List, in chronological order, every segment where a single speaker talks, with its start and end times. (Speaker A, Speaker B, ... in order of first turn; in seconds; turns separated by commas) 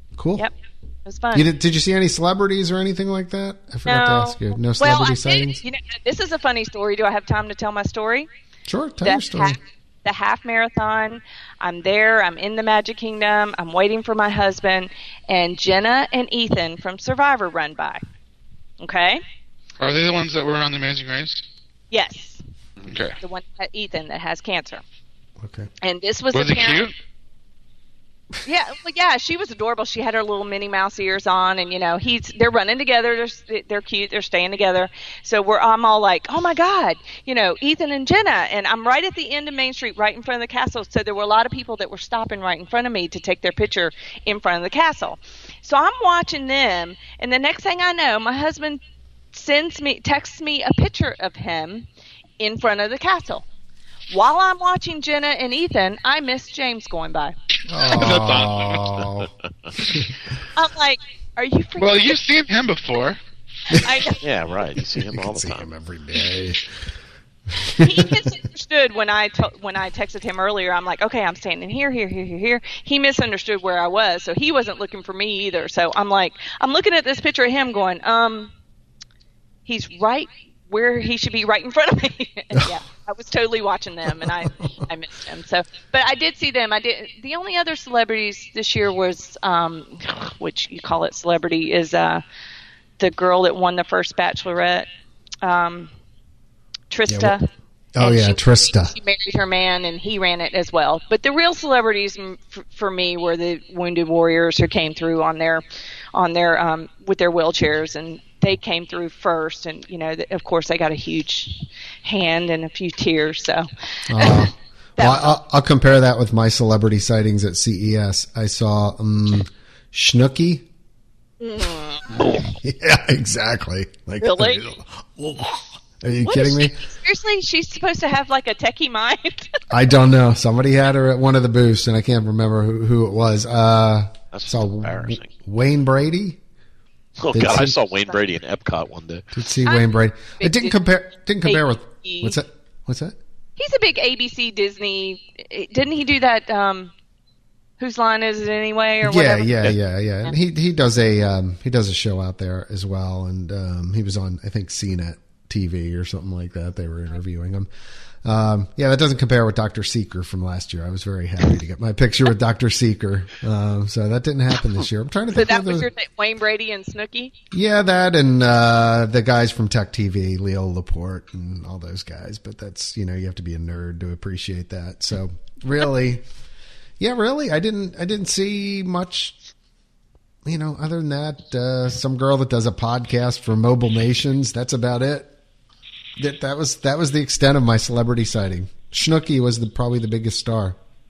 Speaker A: 0.2-0.5, Speaker B: 1.1-1.5, Speaker A: 1.3-5.6, Speaker B: 3.9-8.3, Speaker A: 8.7-9.6, Speaker B: 9.0-18.0, Speaker B: 18.8-19.2, Speaker C: 19.8-21.4, Speaker B: 21.9-22.4, Speaker C: 22.8-23.2, Speaker B: 23.2-24.8, Speaker A: 25.4-25.7, Speaker B: 25.8-26.9, Speaker C: 26.3-26.9, Speaker B: 28.4-48.8, Speaker B: 49.3-51.9, Speaker B: 52.4-53.5, Speaker B: 54.1-57.4, Speaker A: 57.7-60.1, Speaker C: 57.7-59.0, Speaker B: 60.5-62.2, Speaker C: 61.8-63.2, Speaker B: 63.7-64.2, Speaker A: 63.7-64.0, Speaker D: 64.2-65.7, Speaker A: 65.0-66.7, Speaker A: 67.5-68.3, Speaker B: 67.8-78.5, Speaker B: 79.7-92.2, Speaker A: 84.2-84.8, Speaker B: 93.0-94.9, Speaker B: 95.4-95.9, Speaker B: 96.9-97.5, Speaker A: 97.1-97.3, Speaker A: 97.9-99.0, Speaker B: 98.0-115.4, Speaker A: 114.1-120.7, Speaker B: 121.4-122.4, Speaker A: 122.2-126.8, Speaker B: 124.2-124.6, Speaker B: 126.2-129.6, Speaker A: 129.7-136.4, Speaker D: 134.3-135.3, Speaker D: 137.2-139.3, Speaker A: 137.3-137.8, Speaker A: 139.3-143.2, Speaker B: 139.7-140.8, Speaker B: 141.4-142.4, Speaker B: 143.6-146.9, Speaker B: 147.8-149.6, Speaker A: 149.0-157.7, Speaker A: 158.2-165.9, Speaker B: 165.3-167.3, Speaker A: 167.5-176.2, Speaker A: 177.0-179.3, Speaker A: 180.4-185.3, Speaker A: 186.2-190.8